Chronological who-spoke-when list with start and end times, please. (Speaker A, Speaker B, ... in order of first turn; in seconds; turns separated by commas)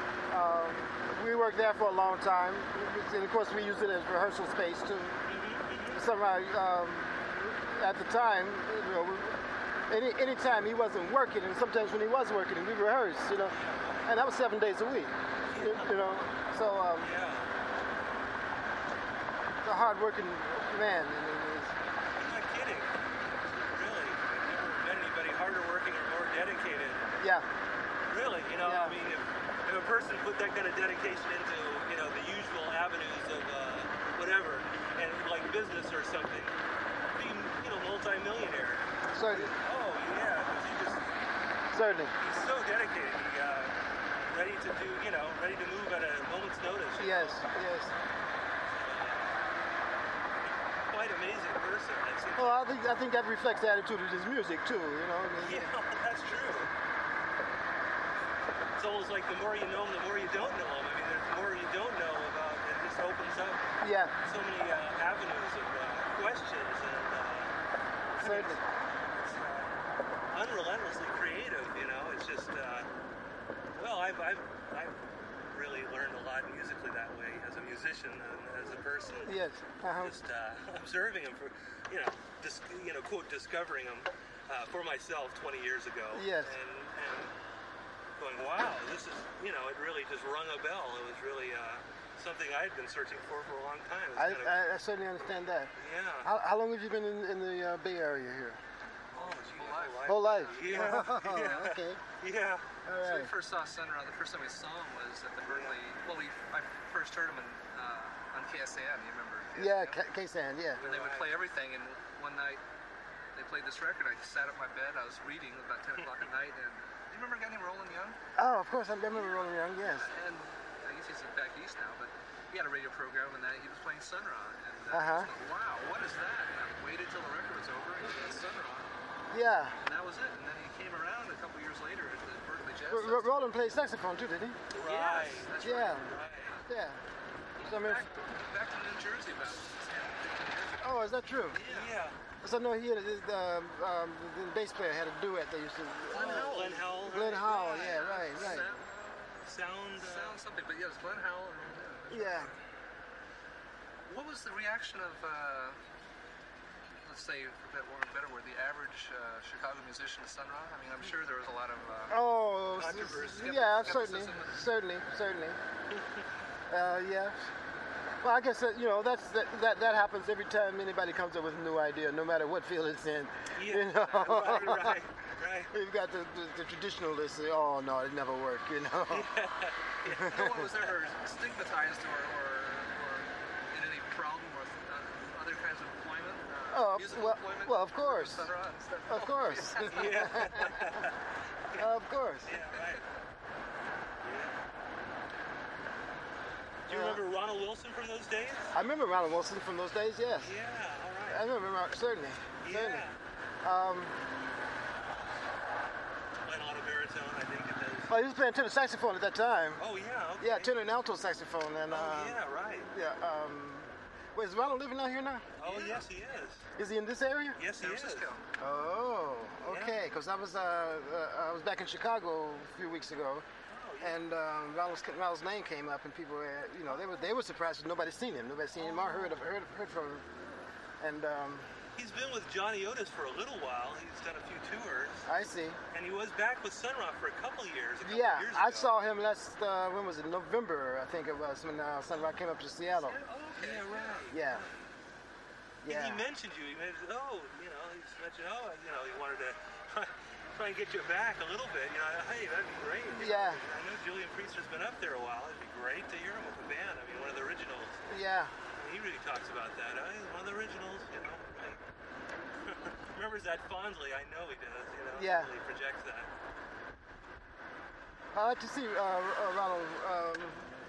Speaker A: 0.3-5.4, Speaker B: 5.3-6.0, Speaker A: 5.9-17.1, Speaker B: 13.5-14.1, Speaker B: 15.5-15.9, Speaker B: 17.0-17.5, Speaker A: 19.6-21.8, Speaker B: 22.2-22.9, Speaker B: 23.5-27.1, Speaker A: 27.2-27.5, Speaker B: 28.1-36.5, Speaker A: 28.6-29.0, Speaker B: 37.1-41.1, Speaker A: 39.1-39.5, Speaker A: 41.7-42.1, Speaker B: 42.2-43.7, Speaker B: 44.2-47.4, Speaker A: 47.0-47.9, Speaker B: 48.7-49.3, Speaker B: 50.9-52.6, Speaker A: 52.4-55.7, Speaker B: 55.4-56.7, Speaker B: 58.8-63.6, Speaker A: 63.8-64.2, Speaker B: 64.2-67.5, Speaker B: 68.1-69.7, Speaker A: 68.2-68.6, Speaker B: 70.3-72.9, Speaker B: 73.7-75.0, Speaker B: 75.5-79.3, Speaker A: 79.2-80.2, Speaker B: 80.0-87.3, Speaker A: 86.1-86.5, Speaker B: 88.2-94.5, Speaker A: 94.2-98.6, Speaker B: 95.8-96.3, Speaker C: 99.1-101.1, Speaker B: 99.1-102.7, Speaker A: 100.0-102.0, Speaker A: 102.8-103.3, Speaker C: 103.0-110.1, Speaker B: 105.4-105.8, Speaker A: 109.5-110.8, Speaker B: 110.8-111.4, Speaker C: 110.8-112.6, Speaker C: 113.3-118.2, Speaker A: 118.3-120.1, Speaker C: 119.1-128.9, Speaker A: 124.9-125.3, Speaker A: 129.3-129.8, Speaker C: 129.8-133.4, Speaker A: 132.9-134.6, Speaker B: 134.7-136.5, Speaker C: 134.7-136.6, Speaker A: 135.6-136.1, Speaker A: 136.7-137.0, Speaker C: 137.6-140.9, Speaker A: 137.6-138.0, Speaker A: 140.8-141.6, Speaker C: 141.5-142.0, Speaker B: 141.6-142.2, Speaker A: 142.4-148.7, Speaker C: 146.1-152.6, Speaker B: 146.1-148.0, Speaker B: 149.4-150.4, Speaker A: 152.1-152.5, Speaker C: 154.1-155.8, Speaker C: 157.0-162.2, Speaker A: 162.1-165.6, Speaker B: 162.8-163.5, Speaker C: 162.8-164.7, Speaker B: 165.9-166.2, Speaker A: 166.7-167.4, Speaker A: 168.2-175.0, Speaker B: 173.6-175.7, Speaker C: 174.0-174.7, Speaker A: 175.7-179.3, Speaker B: 179.1-180.6, Speaker A: 180.1-180.7, Speaker C: 180.1-190.7, Speaker A: 186.7-188.5, Speaker A: 189.1-191.0, Speaker B: 189.9-191.1, Speaker A: 191.8-192.5, Speaker B: 192.4-193.0, Speaker C: 192.7-193.0, Speaker B: 194.2-194.5, Speaker B: 196.8-198.7, Speaker A: 196.9-197.2, Speaker A: 198.7-200.5, Speaker B: 200.4-201.4, Speaker A: 201.3-203.1, Speaker B: 202.6-203.2, Speaker A: 203.6-204.2, Speaker B: 206.4-208.1, Speaker A: 208.1-209.8, Speaker B: 209.8-210.7, Speaker A: 210.4-212.4, Speaker B: 211.9-212.9, Speaker A: 212.9-216.0, Speaker B: 215.6-216.6, Speaker A: 216.8-217.6, Speaker B: 217.6-218.3, Speaker C: 217.8-218.4, Speaker A: 218.6-223.4, Speaker B: 219.7-220.0, Speaker B: 223.7-224.2, Speaker A: 224.0-230.3, Speaker B: 228.8-229.4, Speaker A: 231.0-231.7, Speaker B: 231.9-235.2, Speaker A: 235.2-235.8, Speaker B: 235.9-238.9, Speaker A: 238.0-243.2, Speaker C: 243.0-244.2, Speaker B: 243.4-244.7, Speaker A: 244.3-244.7, Speaker A: 245.8-246.3, Speaker B: 245.9-258.1, Speaker A: 253.1-253.6, Speaker A: 258.1-258.5, Speaker B: 258.7-261.8, Speaker B: 262.6-266.3, Speaker A: 265.1-265.5, Speaker A: 268.3-270.7